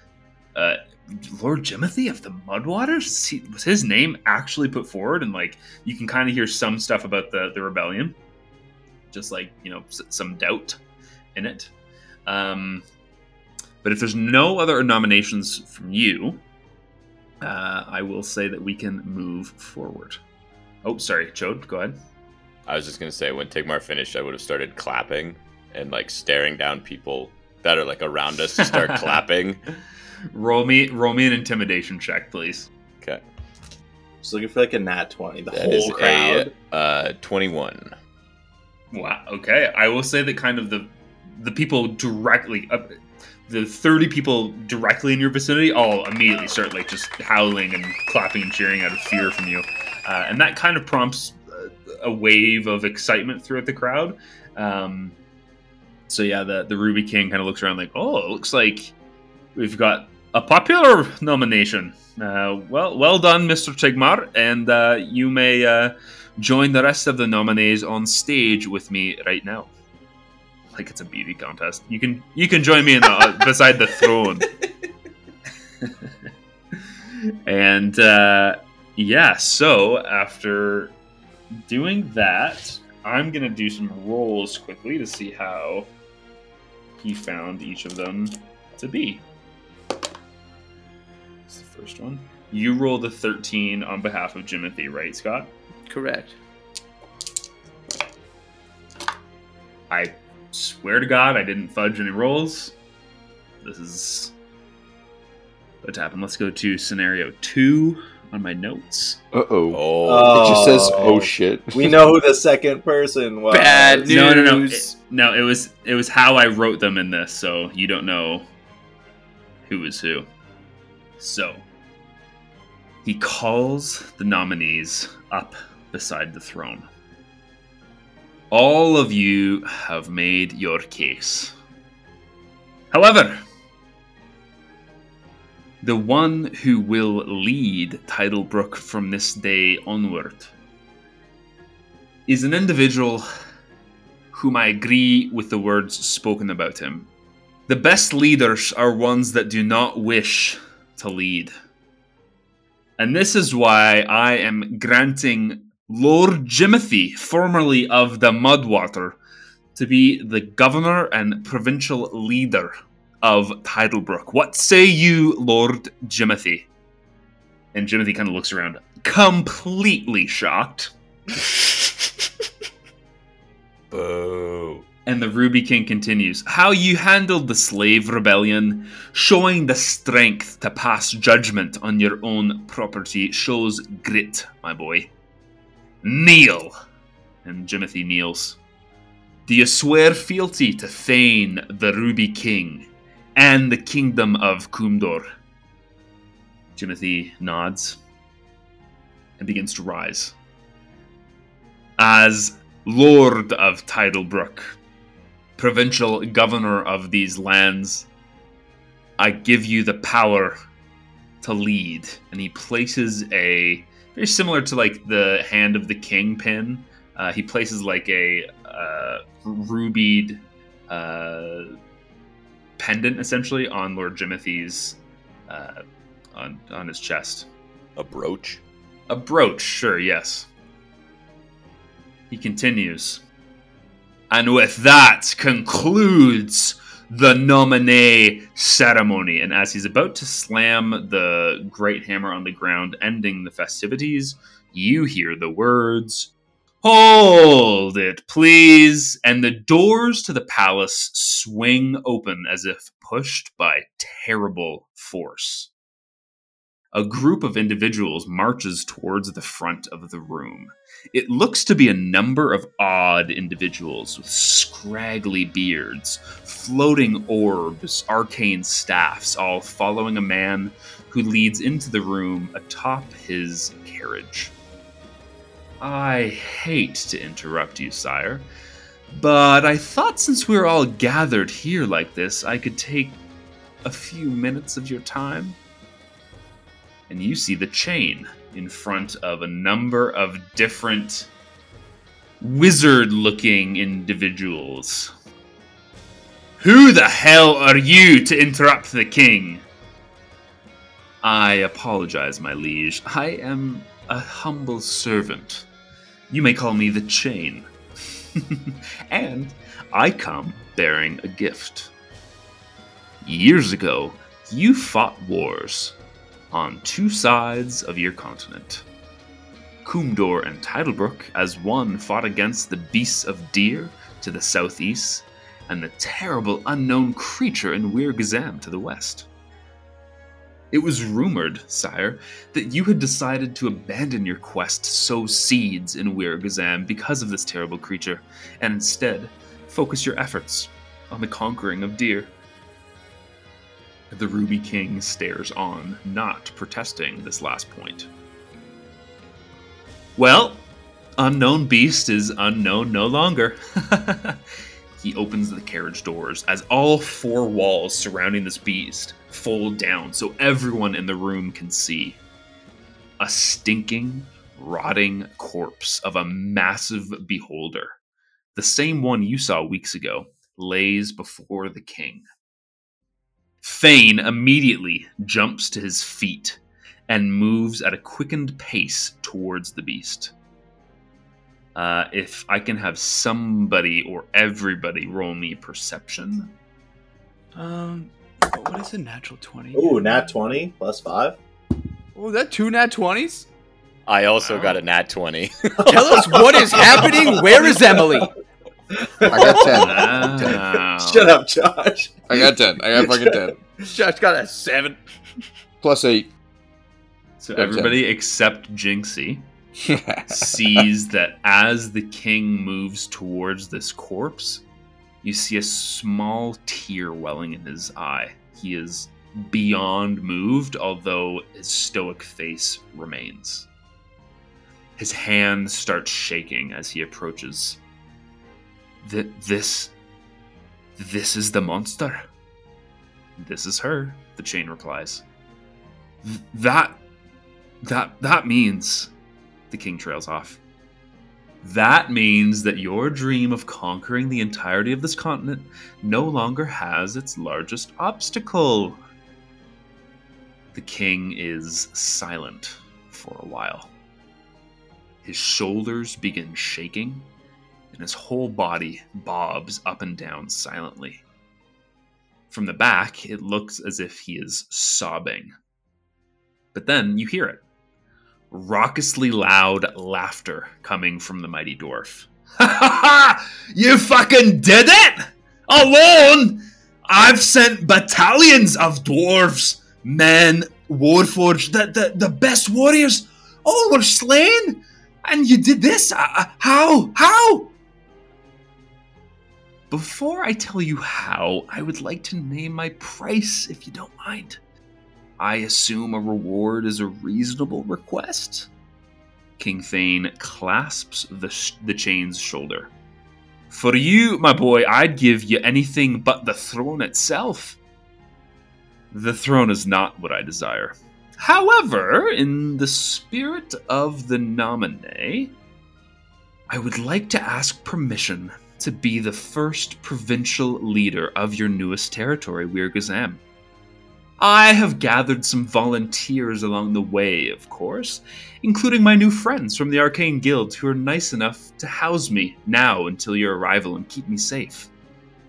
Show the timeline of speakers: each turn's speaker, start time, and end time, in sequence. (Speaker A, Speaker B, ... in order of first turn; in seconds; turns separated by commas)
Speaker A: 0.6-8.2, Speaker A: 9.1-10.8, Speaker A: 11.3-11.7, Speaker A: 12.3-12.8, Speaker A: 13.8-16.4, Speaker A: 17.4-20.2, Speaker A: 20.8-22.0, Speaker B: 22.7-29.6, Speaker A: 28.6-29.2, Speaker A: 30.3-32.7, Speaker C: 34.2-36.5, Speaker B: 35.5-37.9, Speaker A: 38.9-42.9, Speaker A: 43.5-55.1, Speaker A: 56.1-58.9, Speaker A: 59.5-69.7, Speaker A: 70.7-74.5, Speaker A: 77.5-80.9, Speaker A: 81.7-85.9, Speaker A: 87.0-89.2, Speaker A: 91.5-95.5, Speaker D: 95.9-96.4, Speaker A: 99.9-102.8, Speaker A: 103.6-104.3, Speaker A: 105.8-109.2, Speaker E: 109.3-112.2, Speaker B: 109.7-111.0, Speaker C: 110.0-114.1, Speaker D: 113.5-115.0, Speaker A: 114.1-118.5, Speaker A: 119.7-120.3, Speaker A: 121.2-121.6, Speaker A: 123.0-126.9, Speaker A: 128.5-131.5, Speaker A: 132.9-133.4, Speaker A: 135.8-140.5, Speaker A: 142.3-143.2, Speaker A: 144.3-147.1, Speaker A: 147.7-151.5, Speaker A: 153.0-159.2, Speaker A: 159.8-166.7, Speaker A: 167.7-170.9, Speaker B: 173.9-174.9, Speaker A: 175.1-185.1, Speaker A: 186.0-186.7, Speaker A: 187.4-188.6, Speaker A: 189.5-195.3, Speaker A: 196.8-198.0, Speaker A: 199.4-200.3, Speaker A: 202.0-204.8, Speaker A: 205.6-208.1, Speaker A: 209.2-210.6, Speaker A: 211.4-221.7, Speaker A: 222.8-225.8, Speaker A: 226.3-227.5, Speaker B: 228.0-228.6, Speaker A: 229.1-230.5, Speaker A: 232.3-233.2, Speaker A: 234.3-246.3, Speaker A: 246.8-255.7, Speaker A: 256.9-274.5, Speaker A: 275.8-278.5, Speaker A: 279.1-283.2, Speaker A: 283.8-285.6, Speaker A: 287.1-291.3, Speaker A: 292.4-295.1, Speaker A: 296.6-299.6, Speaker A: 301.2-305.7, Speaker A: 306.3-307.7, Speaker A: 308.4-311.9, Speaker A: 313.2-316.0, Speaker A: 316.5-318.9, Speaker A: 319.9-329.3, Speaker A: 330.7-342.3, Speaker A: 344.1-348.1, Speaker A: 350.2-350.7, Speaker A: 351.2-354.4, Speaker A: 355.0-362.2, Speaker A: 363.2-368.0, Speaker A: 368.5-372.3, Speaker A: 373.6-380.3, Speaker A: 381.8-386.5, Speaker D: 387.6-390.3, Speaker C: 389.7-391.4, Speaker D: 392.1-393.5, Speaker B: 394.1-395.9, Speaker A: 394.4-394.8, Speaker D: 395.9-398.3, Speaker C: 396.1-398.3, Speaker C: 398.9-403.6, Speaker E: 399.3-400.6, Speaker A: 399.7-401.4, Speaker E: 402.3-403.6, Speaker D: 403.9-405.0, Speaker E: 405.8-406.3, Speaker A: 407.4-409.5, Speaker E: 407.6-408.0, Speaker E: 409.8-410.9, Speaker A: 410.3-414.6, Speaker A: 415.2-423.7, Speaker A: 425.0-427.8, Speaker A: 429.0-429.9, Speaker A: 431.0-432.2, Speaker A: 433.4-435.2, Speaker A: 436.2-437.0, Speaker A: 437.8-439.1, Speaker A: 439.7-440.6, Speaker A: 441.6-449.0, Speaker A: 450.7-453.9, Speaker A: 455.2-457.3, Speaker A: 457.9-461.2, Speaker A: 462.5-465.5, Speaker A: 466.7-467.6, Speaker A: 468.5-487.7, Speaker A: 489.9-494.6, Speaker A: 495.4-498.7, Speaker A: 499.6-502.9, Speaker A: 503.7-507.8, Speaker A: 509.1-515.5, Speaker A: 516.7-523.4, Speaker A: 524.4-534.9